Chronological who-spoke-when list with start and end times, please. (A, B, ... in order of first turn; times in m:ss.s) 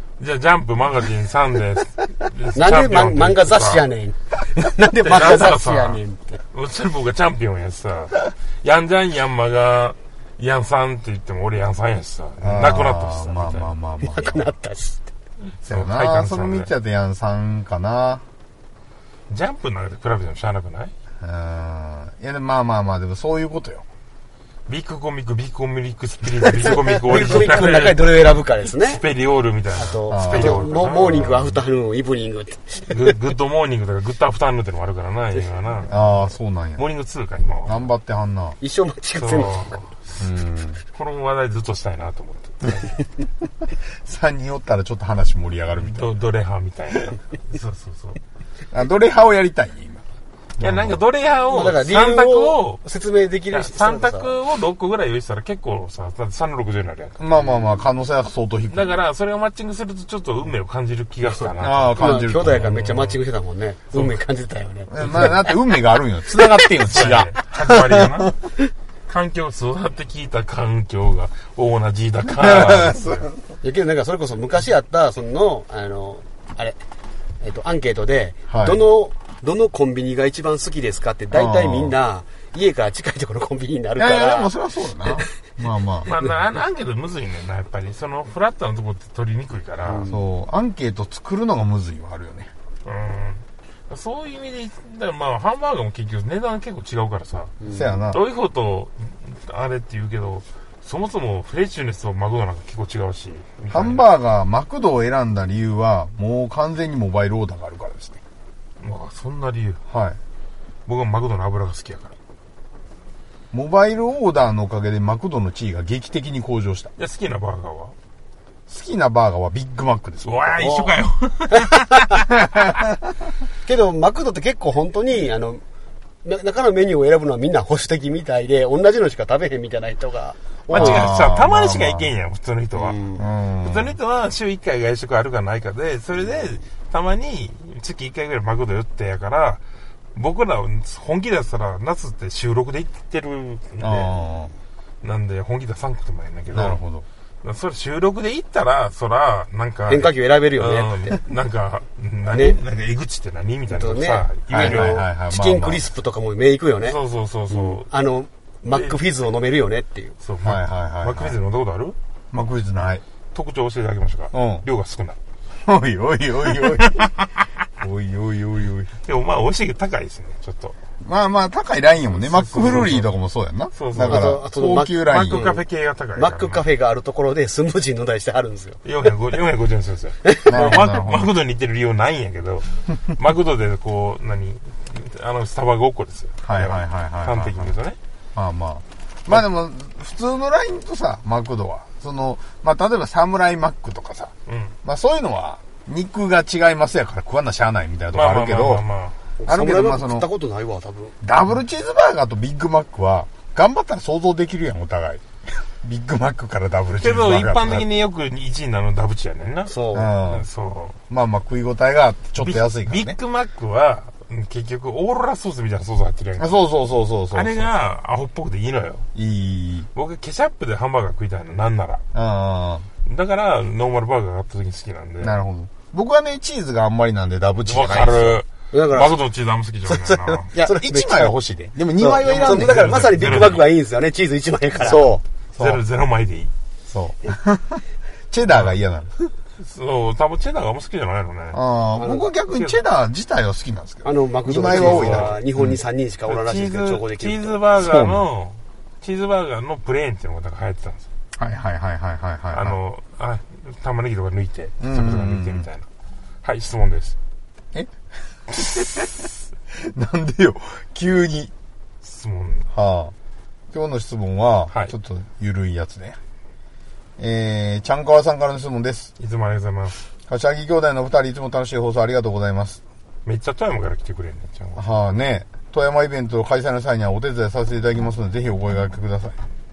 0:00.2-0:03.8 A
0:02.6-0:06.4 B
0:05.0-0:06.0 A
0:06.5-0:13.7 A
0:12.4-0:14.5 C
0:14.0-0:15.1 B
0:15.6-0:16.7 A
0:15.6-0:18.2 C
0:19.3-0:20.9 A
0:21.2-0:23.8 C
0:24.7-0:31.6 A
0:26.6-0:29.0 B
0:29.8-0:33.1 B
0:30.1-0:30.8 C
0:32.9-0:36.0 A
0:35.9-0:36.8 C
0:36.8-0:37.9 A
0:37.7-0:38.6 C
0:38.6-0:39.8 B
0:39.2-0:40.3 A
0:40.2-0:40.8 C
0:40.9-0:42.9 A
0:44.0-0:46.1 C
0:45.8-0:48.2 A
0:48.7-0:50.0 C
0:50.6-0:51.0 C
0:50.6-0:52.8 A
0:51.5-0:54.3 B
0:53.5-0:57.3 A
0:57.2-0:59.0 C
0:58.7-1:03.2 A
1:01.6-1:02.6 C
1:02.0-1:05.6 B
1:03.9-1:04.2 A
1:04.9-1:08.3 C
1:06.8-1:08.4 A
1:09.1-1:13.3 A
1:12.3-1:13.4 C
1:13.6-1:16.8 B
1:17.4-1:24.5 B
1:18.5-1:18.8 C
1:21.3-1:22.0 C
1:24.0-1:26.1 C
1:26.0-1:30.0 A
1:29.8-1:30.2 B
1:30.1-1:32.5 C
1:32.8-1:37.6 A
1:37.6-1:38.0 B
1:37.7-1:38.2 C
1:38.1-1:44.1 A
1:43.7-1:48.2 C
1:48.8-1:49.8 A
1:49.9-1:50.2 C
1:50.9-1:52.2 A
1:53.5-1:56.9 C
1:57.0-1:58.0 A
1:58.7-2:00.5 C
2:00.2-2:02.3 A
2:00.6-2:00.9 B
2:01.5-2:02.2 B
2:02.4-2:02.7 C
2:03.6-2:05.6 B
2:06.2-2:11.1 B
2:10.7-2:13.0 A
2:10.7-2:12.1 C
2:12.8-2:13.2 B
2:13.2-2:14.0 C
2:13.6-2:19.6 A
2:20.2-2:24.2 A
2:23.8-2:24.5 C
2:25.0-2:26.8 A
2:26.5-2:27.1 C
2:27.4-2:35.0 A
2:29.9-2:31.2 B
2:32.3-2:32.6 B
2:33.7-2:37.0 B
2:34.5-2:35.9 C
2:36.8-2:37.9 A
2:37.5-2:40.2 B
2:40.2-2:42.0 A
2:40.4-2:41.4 C
2:42.3-2:43.0 C
2:43.3-2:45.2 A
2:44.3-2:44.7 C
2:45.6-2:47.1 C
2:46.6-2:47.4 A
2:47.8-2:48.9 C
2:49.0-2:50.8 A
2:51.0-2:55.4 C
2:52.1-2:53.1 A
2:53.7-2:54.4 A
2:54.0-2:55.6 B
2:55.0-2:56.6 A
2:56.2-2:58.8 B
2:58.8-3:08.0 A
3:00.3-3:00.6 B
3:00.5-3:01.3 C
3:06.4-3:07.8 C
3:08.4-3:14.3 C
3:14.5-3:14.7 A
3:14.8-3:18.8 C
3:18.1-3:19.2 A
3:19.4-3:21.2 B
3:19.5-3:20.3 C
3:21.2-3:27.9 C
3:27.0-3:31.0 A
3:29.7-3:30.1 B
3:29.9-3:30.5 C
3:31.1-3:33.2 C
3:32.4-3:36.6 A
3:36.4-3:37.7 C
3:37.3-3:39.1 A
3:39.2-3:39.9 C
3:40.0-3:42.0 A
3:42.1-3:42.9 C
3:43.0-3:45.4 A
3:45.2-3:48.4 C
3:47.7-3:50.5 A
3:48.7-3:49.2 B
3:49.9-3:51.4 B
3:50.5-3:53.5 C
3:52.0-3:55.1 B
3:52.2-3:53.7 A
3:54.8-3:55.8 C
3:55.6-3:56.5 A
3:56.9-3:59.3 C
3:58.5-3:58.8 A
3:59.6-4:01.6 A
4:01.5-4:05.8 C
4:02.0-4:02.3 B
4:02.5-4:02.8 A
4:04.0-4:07.6 B
4:04.6-4:05.4 A
4:06.3-4:11.1 A
4:07.8-4:08.3 C
4:11.4-4:12.8 C
4:12.5-4:15.9 A
4:14.8-4:15.7 C
4:16.4-4:17.2 A
4:18.5-4:21.5 C
4:22.0-4:22.7 A
4:22.7-4:23.1 C
4:23.7-4:26.2 C
4:27.2-4:29.1 C
4:29.2-4:30.0 A
4:30.3-4:32.8 C
4:33.2-4:34.9 A
4:34.8-4:39.4 C